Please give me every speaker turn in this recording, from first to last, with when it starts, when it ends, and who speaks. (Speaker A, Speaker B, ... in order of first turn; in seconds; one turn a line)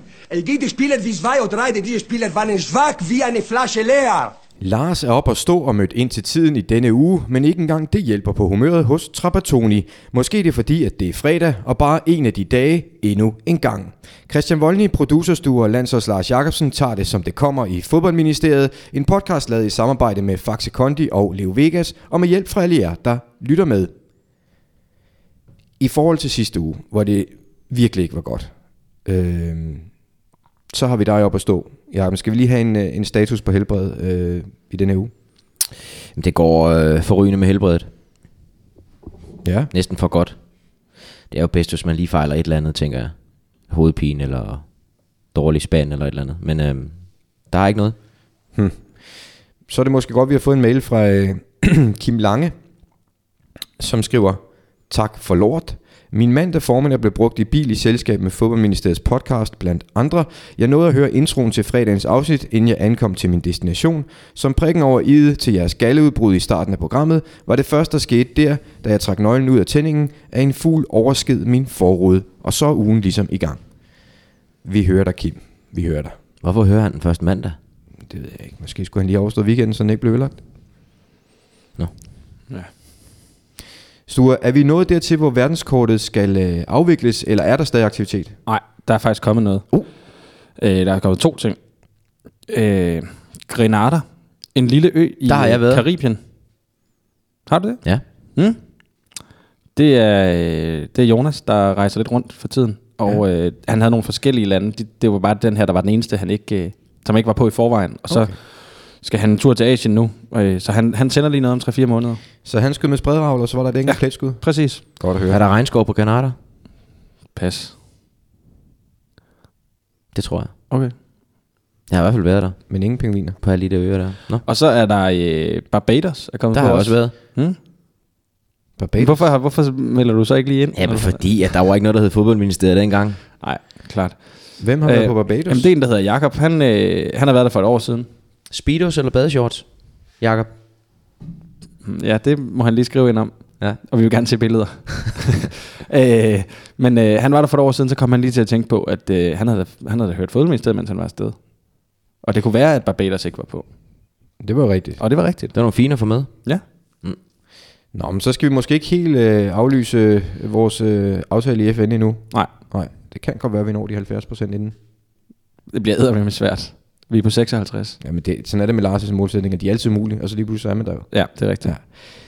Speaker A: 0.3-4.3
Speaker B: 4.6-23.9
Speaker B: 25.8-28.5
Speaker B: 29.0-29.9
Speaker B: 30.7-35.1
Speaker C: 36.1-37.9
Speaker B: 39.4-39.7
Speaker C: 39.7-40.4
Speaker C: 41.3-43.1
Speaker C: 43.7-44.7
Speaker C: 45.3-48.0
Speaker B: 48.5-48.8
Speaker B: 49.7-52.5
Speaker B: 53.8-73.6
Speaker B: 74.6-76.1
Speaker C: 76.4-77.6
Speaker B: 78.0-80.4
Speaker B: 84.1-88.3
Speaker D: 88.5-89.8
Speaker D: 90.5-91.6
Speaker D: 92.5-96.2
Speaker C: 95.3-95.8
Speaker D: 97.5-97.8
Speaker D: 99.7-112.2
Speaker B: 108.1-108.3
Speaker B: 112.4-114.4
Speaker D: 113.9-114.8
Speaker B: 115.0-115.4
Speaker C: 115.3-116.3
Speaker D: 117.3-117.7
Speaker C: 120.1-120.5
Speaker C: 121.9-122.6
Speaker B: 122.7-123.4
Speaker C: 123.4-124.4
Speaker D: 124.5-127.5
Speaker C: 126.5-127.1
Speaker B: 128.8-129.2
Speaker D: 129.0-131.2
Speaker C: 130.7-133.2
Speaker D: 133.4-138.1
Speaker B: 134.6-135.7
Speaker C: 138.5-140.5
Speaker D: 141.8-153.6
Speaker B: 154.4-155.0
Speaker D: 155.0-155.5
Speaker C: 155.5-157.2
Speaker B: 157.9-164.7
Speaker D: 165.7-168.0
Speaker B: 168.0-172.0
Speaker D: 171.1-171.7